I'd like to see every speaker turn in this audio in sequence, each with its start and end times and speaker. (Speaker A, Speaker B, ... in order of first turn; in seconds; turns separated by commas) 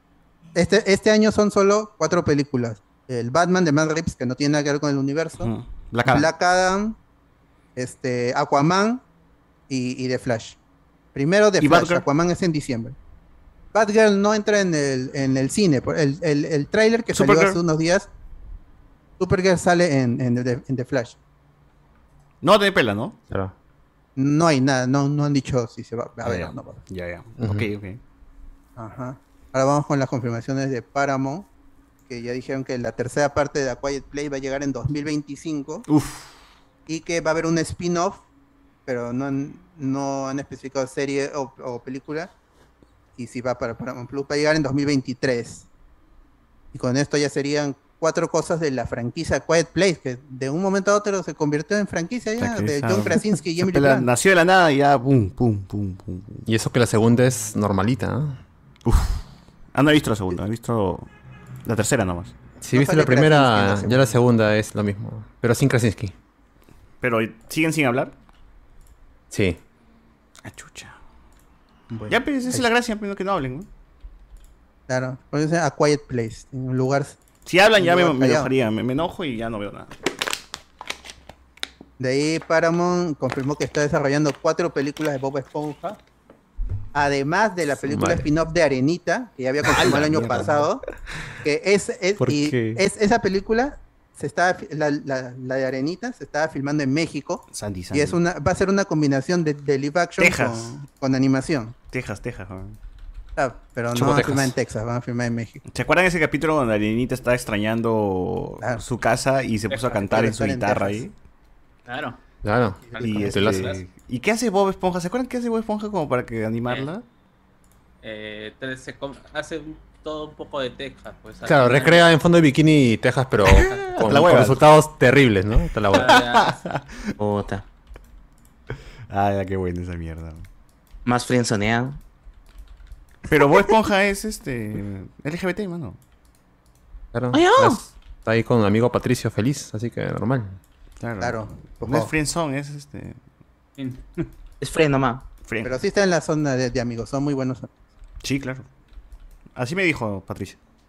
Speaker A: 0.5-5.5, Speaker B: 5.4-6.3, Speaker A: 6.0-7.0, Speaker A: 7.8-9.0, Speaker A: 9.7-10.6, Speaker A: 11.1-12.9, Speaker B: 11.6-12.0, Speaker A: 13.7-18.1, Speaker B: 17.1-17.6, Speaker A: 19.2-21.2, Speaker B: 22.4-23.1, Speaker A: 24.1-26.8, Speaker B: 26.2-28.0, Speaker C: 27.4-27.6, Speaker A: 28.8-31.5, Speaker A: 32.1-35.9, Speaker B: 35.9-36.3, Speaker A: 36.9-38.2, Speaker A: 38.9-42.3, Speaker A: 43.1-45.7, Speaker A: 46.7-54.1, Speaker B: 52.4-56.4, Speaker C: 56.5-58.4, Speaker B: 58.8-59.2, Speaker B: 59.7-61.1, Speaker B: 61.6-62.3, Speaker C: 62.6-66.1, Speaker A: 62.7-64.2, Speaker B: 67.0-68.1, Speaker C: 69.3-69.6, Speaker B: 70.4-71.0, Speaker A: 71.9-72.7, Speaker B: 72.1-73.7, Speaker A: 74.9-77.2, Speaker B: 77.5-79.9, Speaker A: 77.7-78.5, Speaker A: 82.0-86.0, Speaker A: 86.9-90.8, Speaker C: 87.8-88.3, Speaker B: 89.6-90.7, Speaker A: 91.4-101.7, Speaker C: 92.2-92.8, Speaker B: 97.5-98.2, Speaker B: 100.2-100.7, Speaker B: 101.9-102.8, Speaker A: 103.3-105.6, Speaker C: 103.9-104.5, Speaker B: 105.7-111.1, Speaker A: 109.8-111.1, Speaker D: 111.9-112.2, Speaker C: 112.4-113.7, Speaker D: 112.9-113.8, Speaker B: 113.0-117.0, Speaker D: 118.0-122.1, Speaker C: 121.5-126.2, Speaker B: 123.5-124.6, Speaker D: 123.7-124.0, Speaker D: 125.9-126.6, Speaker B: 125.9-127.1, Speaker E: 127.2-127.6, Speaker B: 129.1-130.4, Speaker E: 131.0-132.0, Speaker B: 133.3-136.0, Speaker C: 137.1-140.6, Speaker E: 137.3-137.8, Speaker B: 141.0-143.2, Speaker A: 141.2-142.1, Speaker D: 143.8-144.3, Speaker E: 144.6-145.2, Speaker B: 145.5-145.7, Speaker A: 145.6-147.7, Speaker B: 148.2-148.7, Speaker B: 149.5-150.6